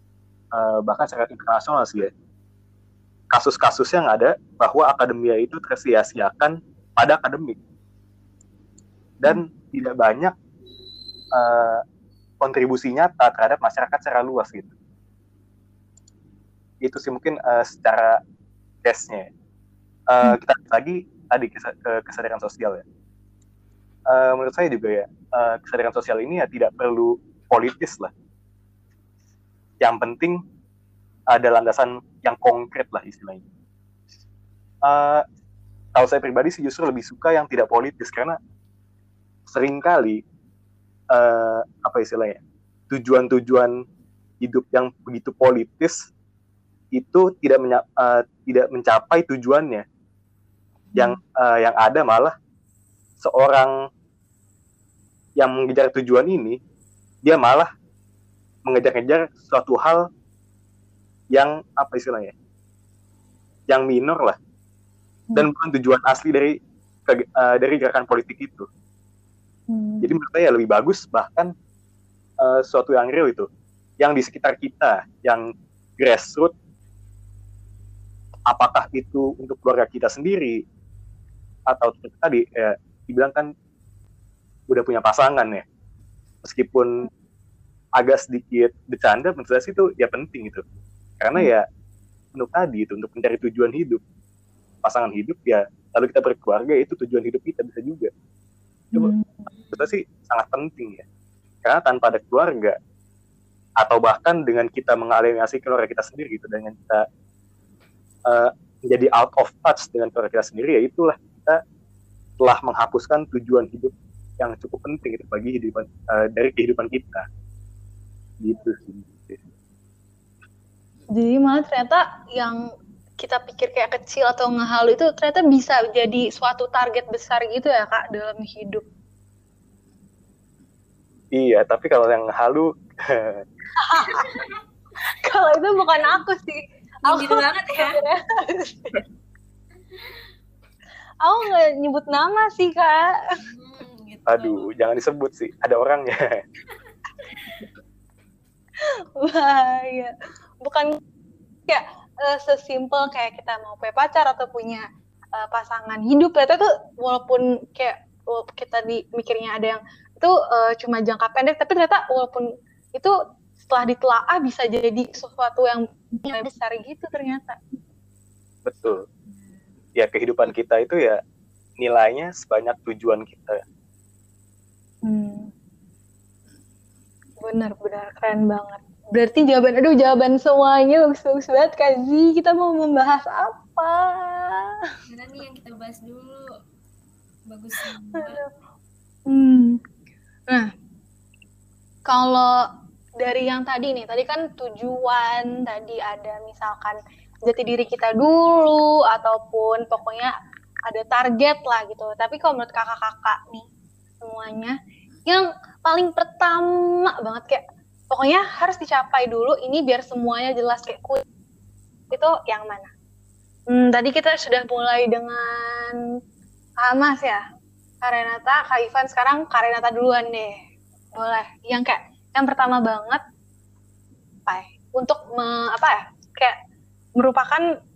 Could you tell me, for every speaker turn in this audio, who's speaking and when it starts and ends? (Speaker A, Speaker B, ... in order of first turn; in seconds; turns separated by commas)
Speaker A: 0.5-2.1, Speaker A: 3.3-7.6, Speaker A: 9.2-10.3, Speaker A: 11.3-11.8, Speaker A: 12.4-14.7, Speaker A: 16.8-18.2, Speaker A: 18.8-19.3, Speaker A: 20.1-22.8, Speaker A: 24.1-28.1, Speaker A: 29.8-30.4, Speaker A: 31.3-33.4, Speaker A: 34.8-35.2, Speaker A: 35.9-38.4, Speaker A: 39.5-40.2, Speaker A: 41.1-43.7, Speaker A: 44.4-46.1, Speaker A: 46.9-49.8, Speaker A: 51.0-52.3, Speaker A: 53.2-53.7, Speaker A: 55.4-56.6, Speaker A: 57.2-57.7, Speaker A: 58.6-60.0, Speaker A: 61.3-62.3, Speaker A: 63.7-64.3, Speaker A: 65.3-66.5, Speaker A: 67.1-68.7, Speaker B: 69.7-70.1, Speaker A: 70.0-71.5, Speaker A: 72.4-73.5, Speaker A: 74.0-76.5, Speaker A: 78.5-80.6, Speaker A: 81.7-83.5, Speaker A: 84.7-85.6, Speaker A: 86.4-87.1, Speaker A: 88.0-90.6, Speaker A: 91.2-91.7, Speaker A: 92.3-94.0, Speaker A: 94.8-98.1, Speaker B: 98.9-99.5, Speaker C: 99.5-100.0, Speaker A: 99.7-101.0, Speaker A: 101.6-102.8, Speaker A: 103.8-107.0, Speaker A: 108.3-111.6, Speaker A: 112.4-117.2, Speaker A: 118.4-119.4, Speaker B: 121.1-122.6, Speaker B: 123.2-128.8, Speaker A: 131.3-133.4, Speaker B: 133.8-134.3, Speaker C: 134.1-134.5, Speaker B: 135.1-139.0, Speaker C: 137.1-138.0, Speaker B: 141.2-143.2, Speaker C: 143.4-144.7, Speaker A: 144.3-146.3, Speaker C: 146.7-147.6, Speaker B: 149.2-151.0, Speaker B: 151.7-167.8, Speaker A: 168.6-169.0, Speaker A: 169.9-171.2, Speaker A: 171.8-173.6, Speaker B: 175.1-175.5, Speaker B: 177.4-184.7, Speaker C: 185.1-186.5, Speaker C: 187.5-188.4, Speaker B: 188.2-188.5, Speaker B: 189.3-189.8, Speaker B: 192.1-192.5, Speaker B: 193.2-200.3, Speaker B: 200.9-203.7, Speaker B: 204.2-211.2, Speaker B: 212.1-212.9, Speaker B: 213.7-216.0, Speaker B: 216.8-217.4, Speaker B: 218.0-220.6, Speaker B: 221.2-223.2, Speaker B: 224.5-226.5, Speaker B: 227.2-227.7